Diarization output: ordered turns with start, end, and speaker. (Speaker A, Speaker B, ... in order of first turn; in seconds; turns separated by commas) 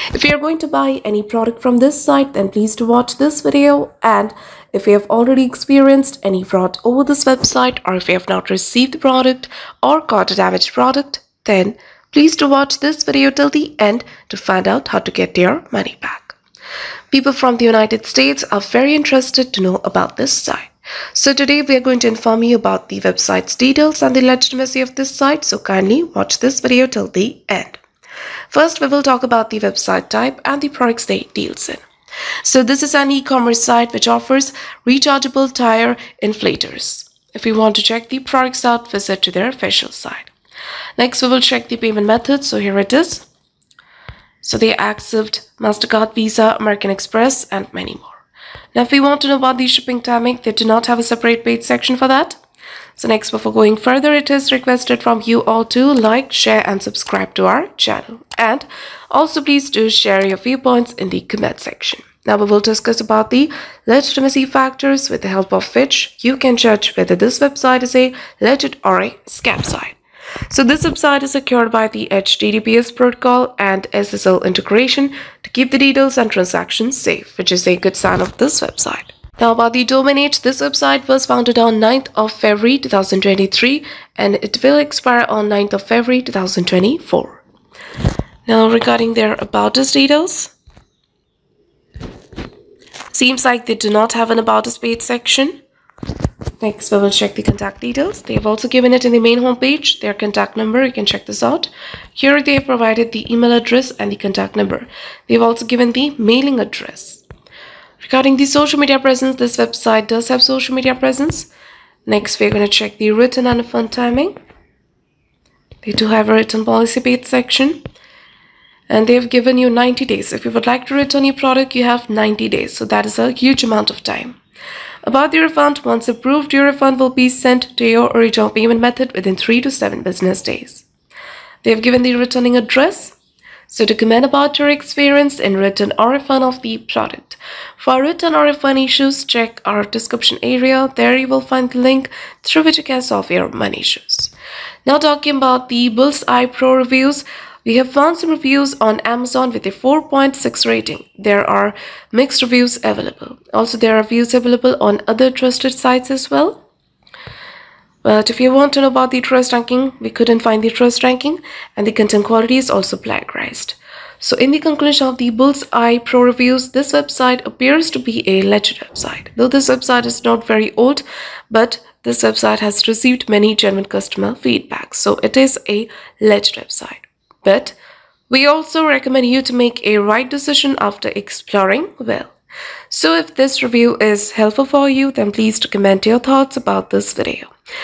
Speaker A: 0.1-16.4, Speaker A: 17.1-27.8, Speaker A: 28.5-31.8, Speaker A: 32.4-40.3, Speaker A: 41.0-43.3, Speaker A: 44.4-48.2, Speaker A: 48.7-52.4, Speaker A: 53.0-87.4, Speaker A: 88.5-90.5, Speaker A: 93.1-95.6, Speaker A: 96.6-107.2, Speaker A: 108.0-111.5, Speaker A: 112.1-114.3, Speaker A: 115.8-117.8, Speaker A: 118.9-124.4, Speaker A: 125.0-130.9, Speaker A: 131.6-133.2, Speaker A: 133.7-144.3, Speaker A: 144.8-156.6, Speaker A: 158.0-177.8, Speaker A: 178.3-182.3, Speaker A: 182.9-187.5